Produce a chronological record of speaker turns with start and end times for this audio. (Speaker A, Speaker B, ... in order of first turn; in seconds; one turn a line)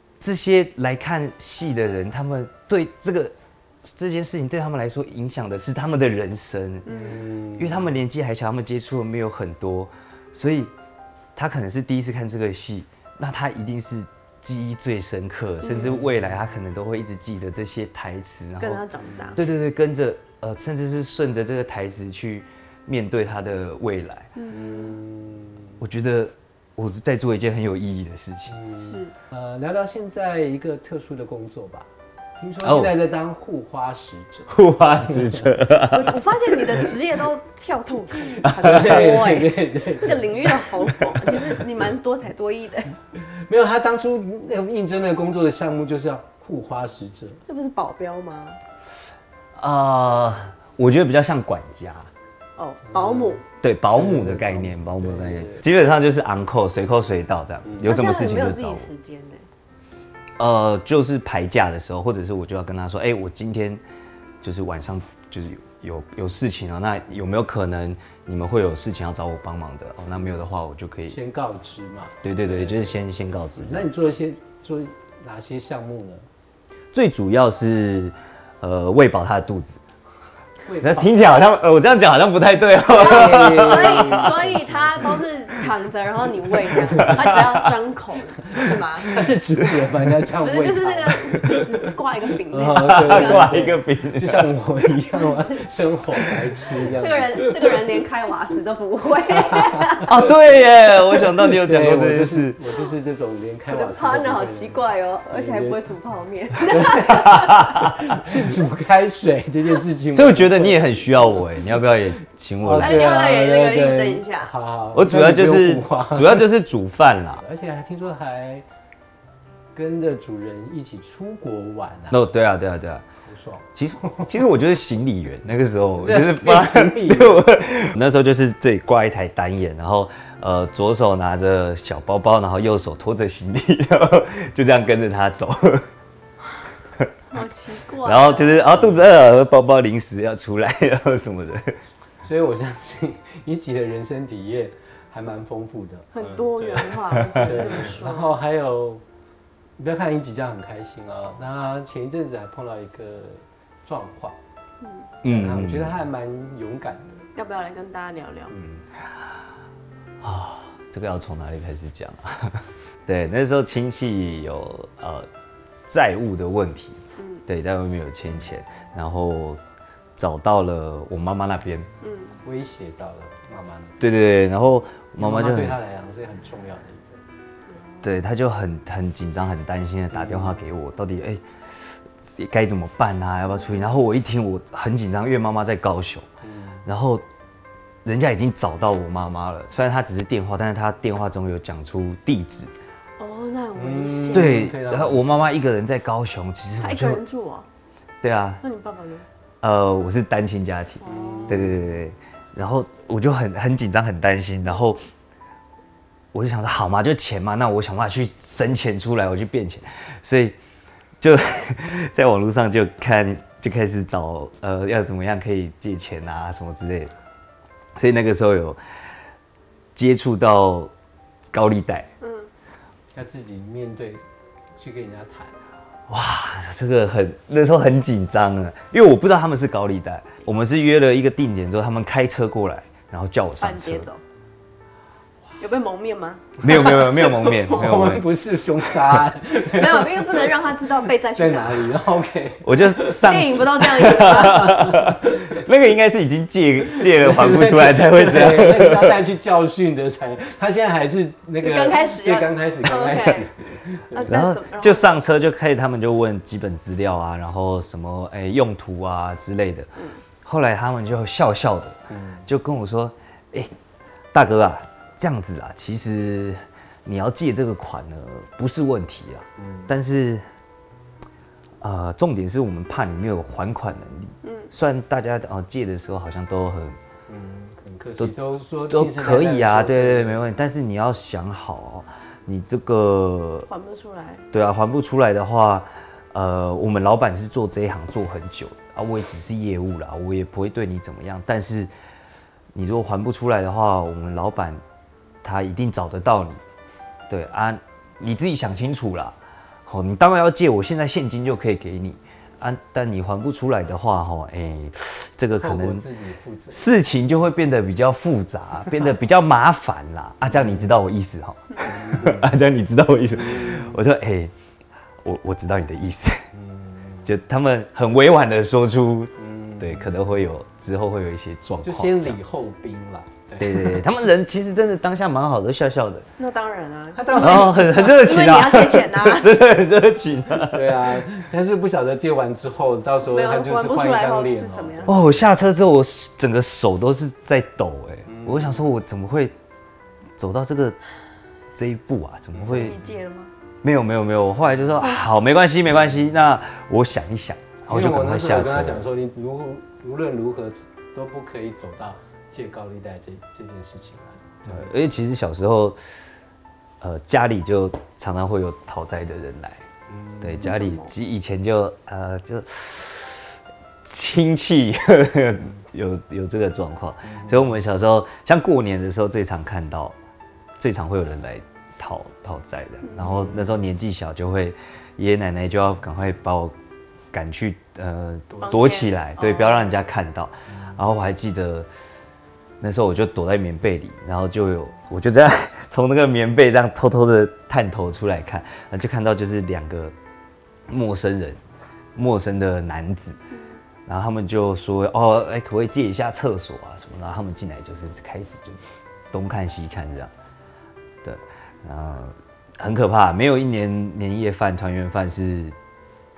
Speaker A: 0.2-6.9
Speaker B: 6.9-7.2
Speaker C: 6.9-7.9
Speaker A: 7.5-10.7
Speaker A: 11.4-18.8
Speaker B: 15.6-16.0
Speaker C: 15.8-16.2
Speaker B: 18.6-19.4
Speaker A: 19.4-24.3
Speaker B: 24.4-24.6
Speaker C: 24.5-25.8
Speaker A: 25.8-28.6
Speaker C: 28.5-35.5
Speaker B: 28.8-29.1
Speaker A: 32.6-32.9
Speaker A: 34.5-36.9
Speaker B: 35.8-43.0
Speaker A: 38.4-39.0
Speaker C: 38.5-40.5
Speaker C: 43.1-47.4
Speaker B: 47.5-48.6
Speaker A: 49.6-52.1
Speaker B: 52.6-53.4
Speaker C: 52.9-55.7
Speaker A: 53.6-58.9
Speaker C: 57.6-57.9
Speaker B: 57.8-59.5
Speaker A: 60.4-63.8
Speaker A: 64.4-71.2
Speaker C: 71.1-73.0
Speaker A: 72.2-73.9
Speaker C: 73.6-76.3
Speaker A: 76.9-79.8
Speaker C: 80.6-81.2
Speaker A: 80.8-84.4
Speaker C: 82.9-85.2
Speaker B: 83.0-89.2
Speaker C: 86.7-87.3
Speaker A: 86.7-87.7
Speaker C: 88.6-91.9
Speaker A: 88.6-89.2
Speaker B: 90.4-93.6
Speaker C: 92.5-97.8
Speaker A: 92.8-94.5
Speaker B: 97.0-100.2
Speaker C: 99.4-100.3
Speaker A: 100.0-102.6
Speaker C: 101.2-105.9
Speaker B: 103.7-107.7
Speaker C: 106.5-116.5
Speaker A: 107.1-108.4
Speaker A: 110.2-113.1
Speaker B: 112.8-114.5
Speaker A: 114.9-117.4
Speaker C: 117.4-118.7
Speaker C: 119.7-122.2
Speaker A: 122.1-123.1
Speaker C: 123.2-124.4
Speaker A: 123.8-135.9
Speaker C: 126.0-127.5
Speaker B: 137.3-138.7
Speaker A: 138.0-141.8
Speaker C: 142.2-149.0
Speaker B: 146.1-148.4
Speaker A: 147.2-147.5
Speaker C: 149.8-154.4
Speaker B: 154.8-155.1
Speaker A: 155.2-156.0
Speaker C: 155.2-157.3
Speaker B: 157.3-158.5
Speaker A: 160.2-165.3
Speaker A: 165.9-169.6
Speaker B: 167.2-167.4
Speaker A: 170.2-171.9
Speaker B: 172.0-172.4
Speaker C: 172.4-174.0
Speaker A: 174.0-175.8
Speaker C: 175.2-177.2
Speaker A: 178.0-186.3
Speaker C: 180.1-180.7
Speaker C: 186.4-186.9
Speaker A: 186.8-187.3
Speaker A: 188.0-192.7
Speaker B: 193.2-194.7
Speaker C: 193.8-195.6
Speaker A: 194.3-197.2
Speaker B: 196.8-197.7
Speaker A: 198.2-198.6
Speaker B: 198.6-199.3
Speaker A: 199.6-205.0
Speaker B: 201.0-201.7
Speaker C: 201.1-201.8
Speaker A: 206.3-210.6
Speaker A: 211.2-217.1
Speaker A: 218.0-218.8
Speaker A: 219.9-220.9
Speaker A: 221.5-222.1
Speaker B: 222.2-222.5
Speaker C: 223.1-224.2
Speaker C: 224.8-225.6
Speaker A: 226.1-234.1
Speaker B: 233.6-234.2
Speaker B: 235.6-238.1
Speaker A: 236.6-238.3
Speaker C: 236.6-240.5
Speaker B: 239.5-242.0
Speaker C: 241.3-243.2
Speaker A: 242.6-249.2
Speaker B: 242.9-244.9
Speaker C: 244.0-245.6
Speaker C: 246.9-254.4
Speaker B: 251.6-253.5
Speaker B: 254.1-255.1
Speaker A: 254.3-259.9
Speaker B: 260.0-260.2
Speaker A: 260.4-263.7
Speaker C: 262.1-262.5
Speaker A: 264.3-270.5
Speaker C: 269.6-269.9
Speaker A: 271.8-277.0
Speaker B: 274.4-274.7
Speaker C: 277.3-280.5
Speaker A: 278.9-283.7
Speaker B: 283.7-284.4
Speaker A: 284.5-291.9
Speaker A: 292.7-294.8
Speaker A: 295.4-296.6
Speaker A: 297.3-306.1
Speaker C: 305.6-306.9
Speaker A: 306.7-314.5
Speaker C: 310.5-310.9
Speaker C: 311.8-312.6
Speaker C: 313.3-314.0
Speaker A: 315.2-316.5
Speaker C: 316.5-317.3
Speaker A: 317.3-322.4
Speaker C: 319.4-320.3
Speaker C: 321.8-324.0
Speaker A: 323.6-326.3
Speaker B: 326.4-329.6
Speaker C: 327.1-328.3
Speaker A: 327.4-331.3
Speaker C: 330.6-335.4
Speaker B: 333.3-335.2
Speaker A: 335.1-339.5
Speaker C: 338.3-338.8
Speaker A: 340.4-341.0
Speaker A: 341.8-342.9
Speaker C: 342.5-343.0
Speaker B: 342.7-343.5
Speaker A: 343.8-349.1
Speaker C: 347.9-354.9
Speaker A: 354.7-356.0
Speaker A: 357.0-359.9
Speaker C: 360.1-360.7
Speaker A: 360.4-370.2
Speaker B: 360.6-361.1
Speaker C: 367.3-367.6
Speaker A: 370.8-376.8
Speaker B: 373.1-373.7
Speaker A: 377.3-381.9
Speaker B: 378.6-379.9
Speaker A: 382.8-390.1
Speaker A: 390.9-391.6
Speaker A: 392.1-393.4
Speaker B: 393.5-393.8
Speaker A: 394.1-400.3
Speaker A: 401.2-405.8